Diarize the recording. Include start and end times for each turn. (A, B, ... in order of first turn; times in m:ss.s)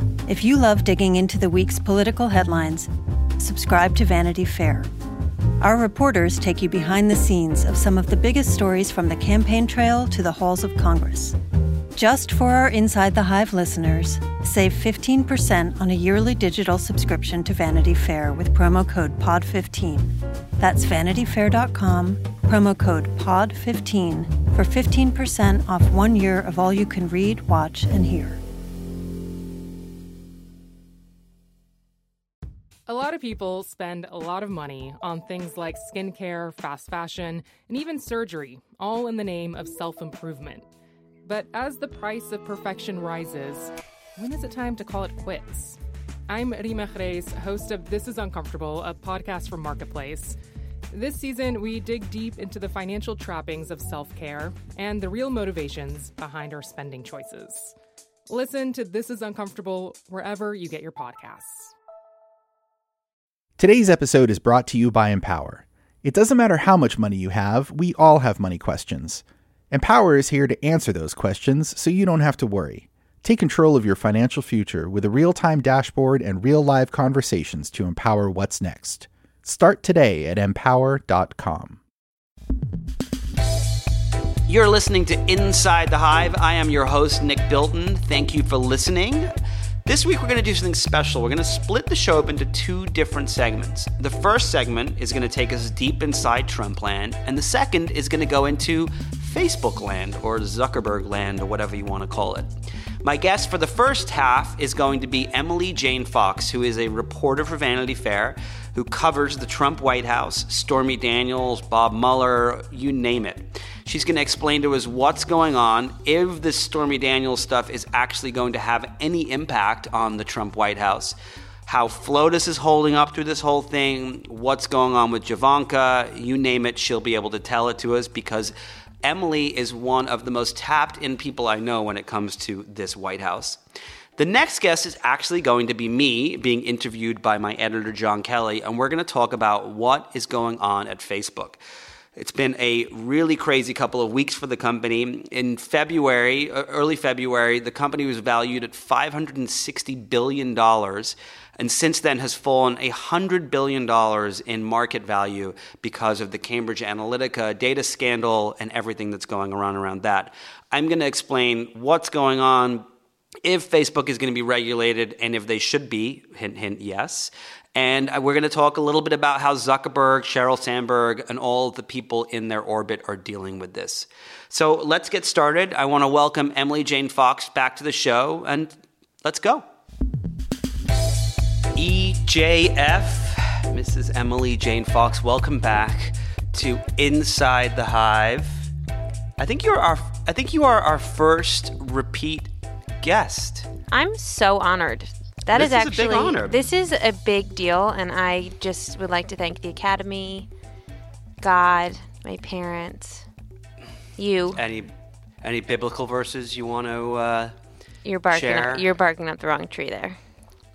0:00.3-0:04.9 A
0:05.6-0:11.4 A
0:12.0-0:28.4 A
0:32.9-0:40.6 B
0:41.2-0:50.4 B
0:50.9-0:57.8 B
0:58.3-1:01.7 B
1:03.6-1:21.8 C
1:24.5-1:29.3 D
1:29.9-2:01.2 D
2:01.7-2:13.6 D
2:14.2-2:21.6 D
2:22.2-2:42.9 D
2:43.4-2:59.6 D
3:01.8-3:08.7 D
3:09.4-3:13.7 D
3:13.9-3:20.5 E
3:15.5-3:16.6 D
3:21.4-3:23.3 E
3:24.2-3:24.6 E
3:24.6-3:27.6 D
3:28.0-3:30.2 E
3:28.3-3:28.9 D